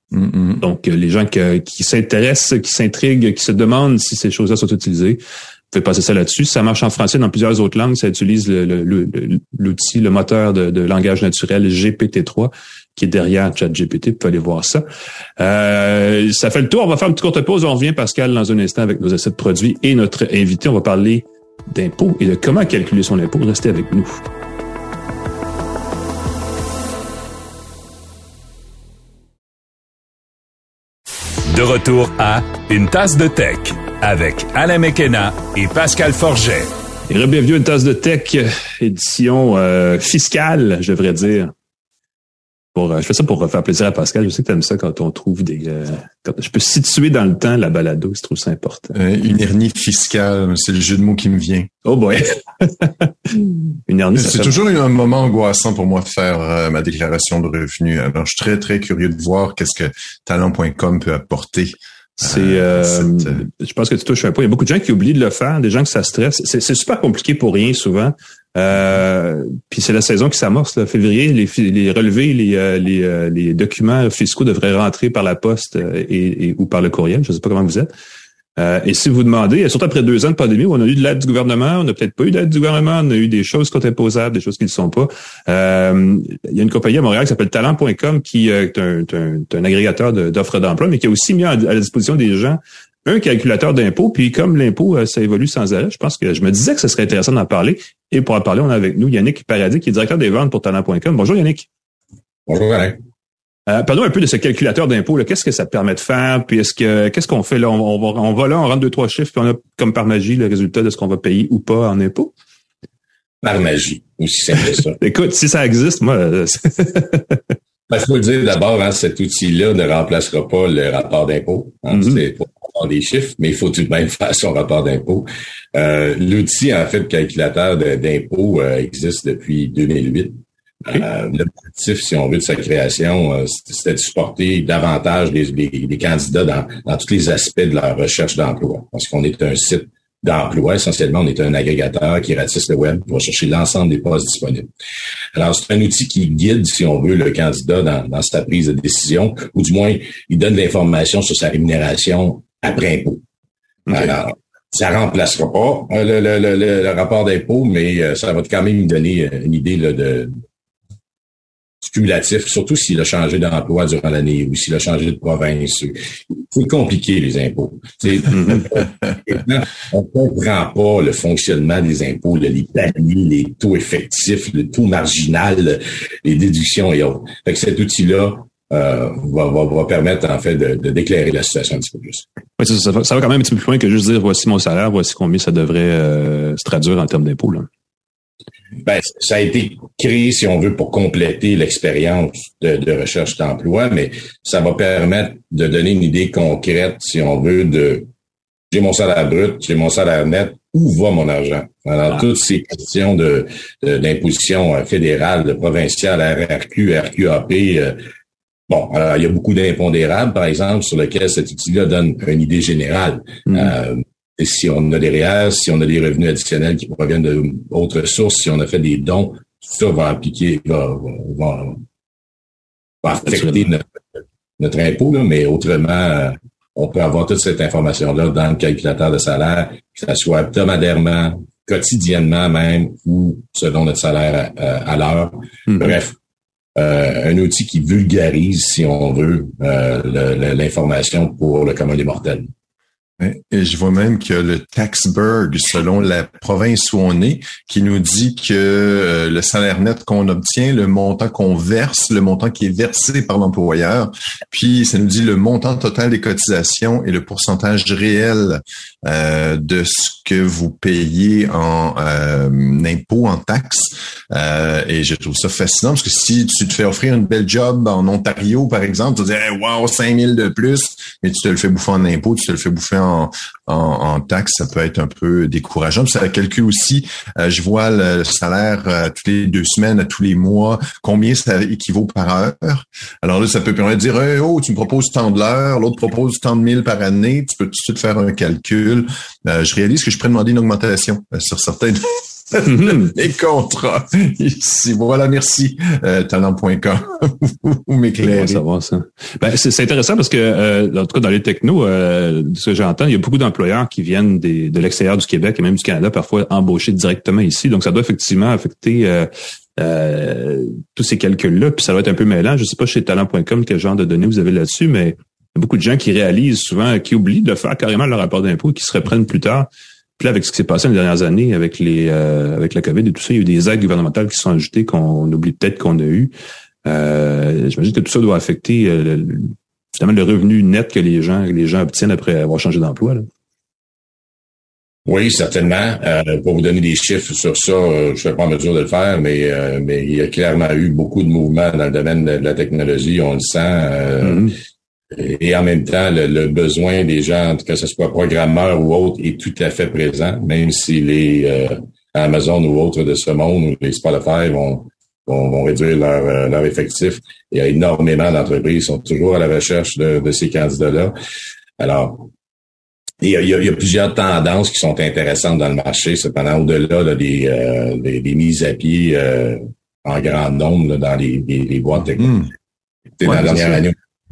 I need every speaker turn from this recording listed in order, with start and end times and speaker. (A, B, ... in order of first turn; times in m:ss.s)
0:00.1-0:00.6 A
0:00.6-0:05.2 B
0:05.7-0:14.8 B
0:15.4-0:24.2 B
0:31.5-0:36.7 C
0:37.1-0:41.5 B
0:42.8-0:48.9 B
0:48.9-0:51.7 A
0:51.8-0:54.6 B
0:54.2-1:03.4 A
1:02.2-1:17.9 B
1:18.6-1:41.7 B
1:42.5-1:43.0 D
1:43.7-1:52.3 B
1:53.4-1:55.0 D
1:55.0-1:57.4 B
1:57.9-2:24.7 D
2:01.9-2:02.2 B
2:25.4-2:33.2 D
2:33.9-2:40.3 D
2:41.8-3:02.2 D
2:48.3-2:48.6 B
3:02.6-3:07.7 B
3:08.8-3:18.1 D
3:18.7-3:28.0 D
3:28.7-3:41.8 D
3:33.5-3:33.8 B
3:43.0-3:43.8 D
3:43.3-3:43.7 B
3:44.6-3:56.2 D
3:55.7-3:56.0 B
3:56.8-4:02.5 D
4:03.2-4:58.6 A
4:52.7-4:53.0 B
4:58.2-5:26.3 B
5:26.9-5:33.3 B
5:35.1-5:44.5 D
5:44.2-5:44.6 B
5:45.1-6:01.2 D
6:01.8-6:02.3 D
6:03.2-6:12.5 D
6:13.2-6:14.0 D
6:13.2-6:13.8 B